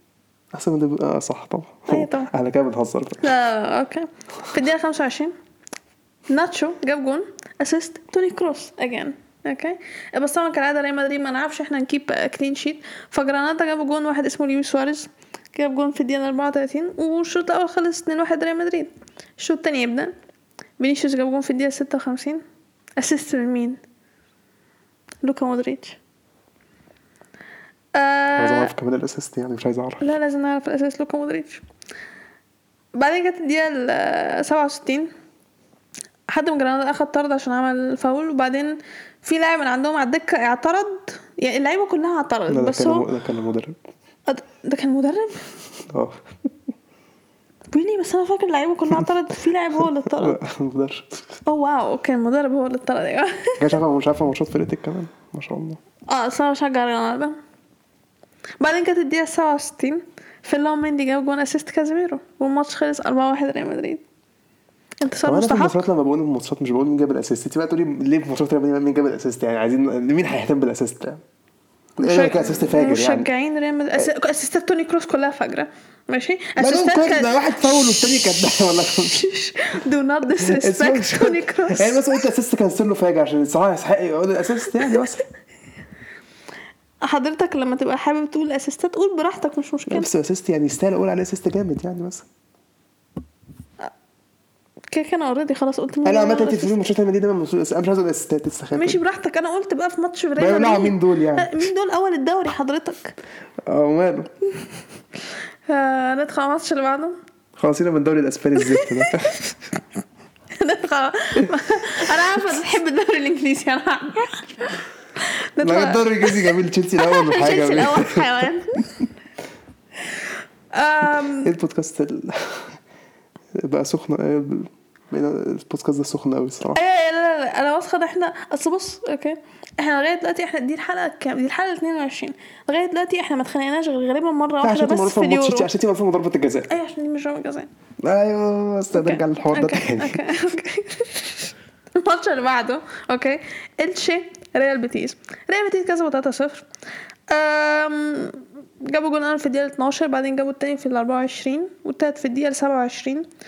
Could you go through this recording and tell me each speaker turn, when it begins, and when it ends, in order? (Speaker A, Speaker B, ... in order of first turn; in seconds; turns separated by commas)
Speaker A: 0.5-3.3, Speaker B: 1.9-2.3, Speaker B: 3.2-5.3, Speaker B: 6.3-20.1, Speaker B: 20.8-22.4, Speaker B: 23.0-23.8, Speaker B: 25.2-26.0, Speaker B: 27.9-28.7, Speaker A: 28.4-30.1, Speaker B: 30.0-31.6, Speaker B: 32.9-35.1, Speaker B: 36.3-43.0, Speaker A: 42.5-43.8, Speaker B: 44.3-45.5, Speaker A: 45.9-46.2, Speaker B: 47.7-50.4, Speaker A: 49.8-51.4, Speaker B: 51.5-53.7, Speaker A: 53.6-55.8, Speaker B: 56.1-57.4, Speaker B: 58.6-64.0, Speaker B: 65.0-65.8, Speaker A: 65.2-71.2, Speaker A: 72.0-73.3, Speaker B: 72.0-82.2, Speaker A: 76.6-79.2, Speaker A: 80.4-85.2, Speaker B: 87.0-90.1, Speaker A: 89.9-92.3, Speaker B: 94.9-96.8, Speaker A: 96.0-99.0, Speaker B: 98.8-103.1, Speaker A: 100.4-101.7, Speaker A: 103.7-104.3, Speaker B: 105.7-107.2, Speaker A: 107.6-109.3, Speaker B: 108.6-109.5, Speaker B: 110.5-119.0, Speaker A: 115.6-118.5, Speaker B: 120.7-121.5, Speaker A: 121.4-122.7, Speaker A: 123.5-126.8, Speaker B: 126.7-135.7, Speaker A: 134.6-136.7, Speaker B: 136.7-137.7, Speaker A: 138.0-140.2, Speaker B: 138.9-146.7, Speaker B: 147.3-153.3